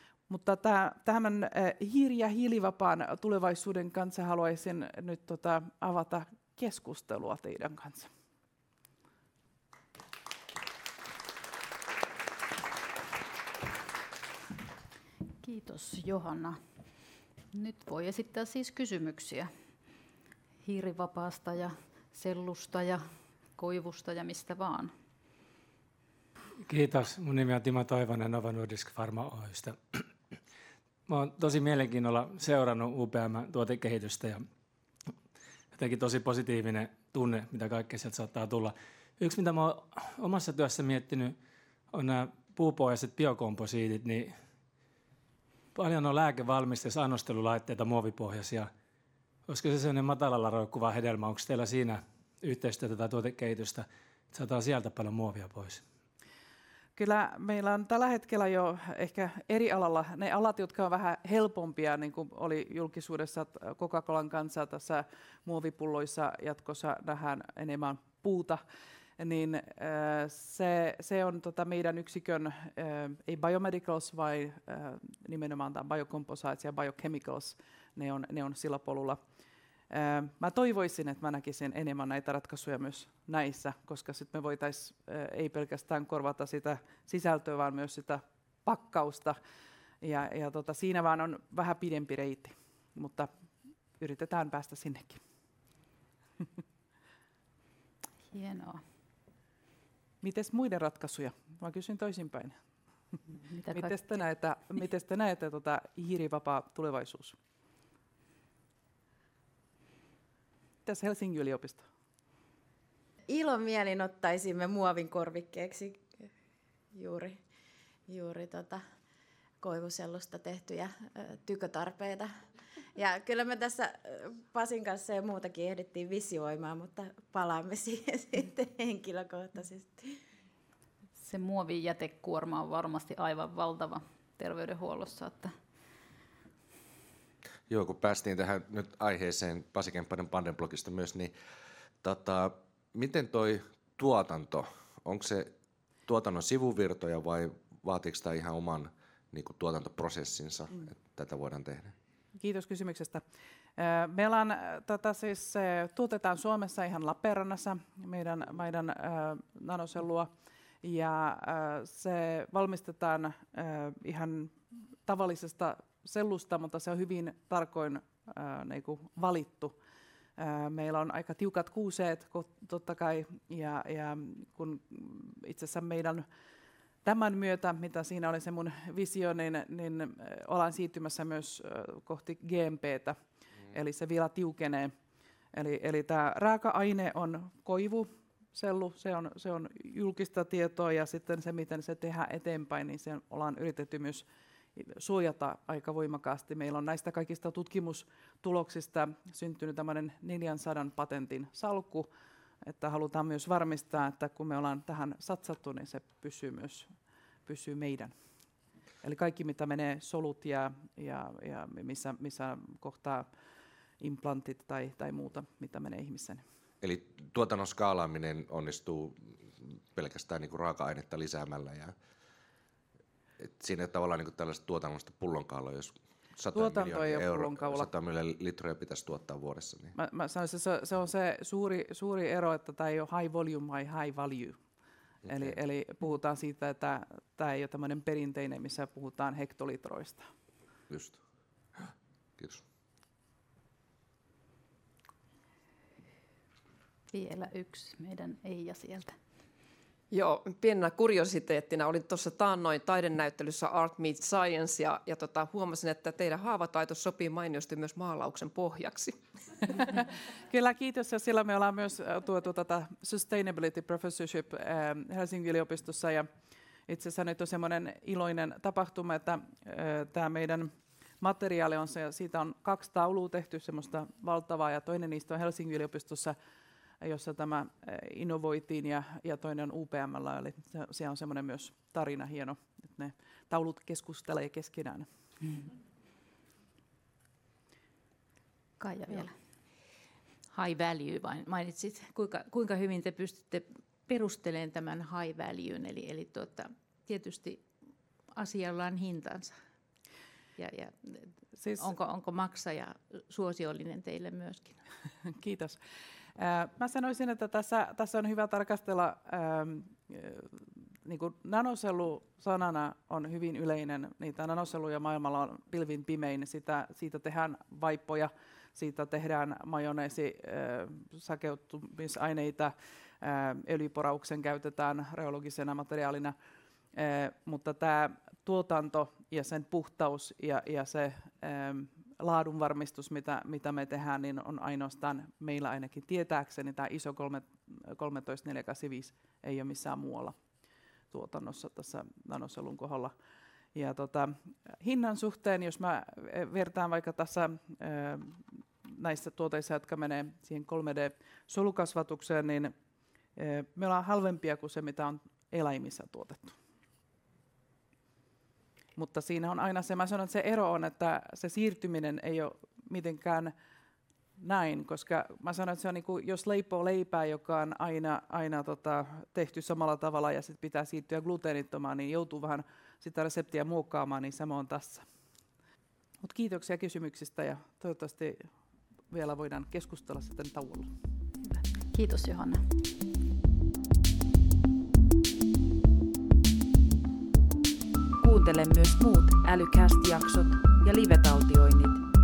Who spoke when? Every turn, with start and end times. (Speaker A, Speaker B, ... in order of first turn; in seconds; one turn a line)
Speaker A: 0.3-8.1
Speaker B: 15.4-16.6
Speaker B: 17.5-19.5
Speaker B: 20.6-23.0
Speaker B: 23.5-24.9
Speaker C: 26.7-30.0
Speaker C: 31.1-34.4
Speaker C: 35.7-41.4
Speaker C: 41.9-44.3
Speaker C: 45.8-48.7
Speaker C: 49.5-55.8
Speaker A: 57.0-68.6
Speaker A: 69.2-79.2
Speaker A: 79.9-89.4
Speaker A: 90.0-93.3
Speaker A: 94.0-95.2
Speaker B: 98.3-98.8
Speaker A: 100.2-102.6
Speaker B: 103.4-104.2
Speaker A: 103.7-107.4
Speaker A: 110.9-111.8
Speaker D: 113.2-116.2
Speaker D: 116.9-117.4
Speaker D: 118.1-118.8
Speaker D: 119.6-122.3
Speaker D: 122.9-130.2
Speaker B: 131.2-135.5
Speaker E: 137.7-141.3
Speaker E: 142.0-145.5
Speaker E: 146.1-151.9
Speaker A: 152.3-153.2
Speaker A: 153.8-160.3
Speaker A: 160.8-164.5
Speaker A: 165.1-169.7
Speaker A: 170.4-176.2
Speaker A: 177.0-183.1
Speaker A: 183.7-184.9
Speaker A: 185.5-194.2
Speaker A: 194.8-202.1
Speaker A: 202.7-206.9
Speaker A: 207.5-208.1
Speaker A: 209.0-213.3
Speaker A: 214.0-216.4
Speaker E: 216.8-221.9
Speaker E: 223.4-229.9
Speaker A: 226.5-227.9
Speaker A: 230.0-234.6
Speaker E: 235.3-235.6
Speaker A: 235.3-240.2
Speaker E: 240.9-241.2
Speaker E: 241.8-242.6
Speaker B: 247.1-249.1
Speaker F: 250.1-259.2
Speaker A: 260.5-266.2
Speaker A: 266.9-270.7
Speaker A: 271.2-276.4
Speaker A: 277.0-285.1
Speaker B: 288.8-289.3
Speaker G: 290.5-297.6
Speaker G: 298.3-299.5
Speaker G: 300.6-300.9
Speaker A: 301.6-301.9
Speaker G: 301.8-304.8
Speaker A: 305.3-305.8
Speaker A: 306.4-326.3
Speaker A: 326.9-340.4
Speaker A: 341.1-343.1
Speaker A: 343.8-352.7
Speaker A: 353.4-356.5
Speaker A: 359.0-363.5
Speaker A: 364.4-375.1
Speaker A: 376.2-378.4
Speaker A: 379.1-380.9
Speaker B: 381.5-382.6
Speaker H: 388.2-392.0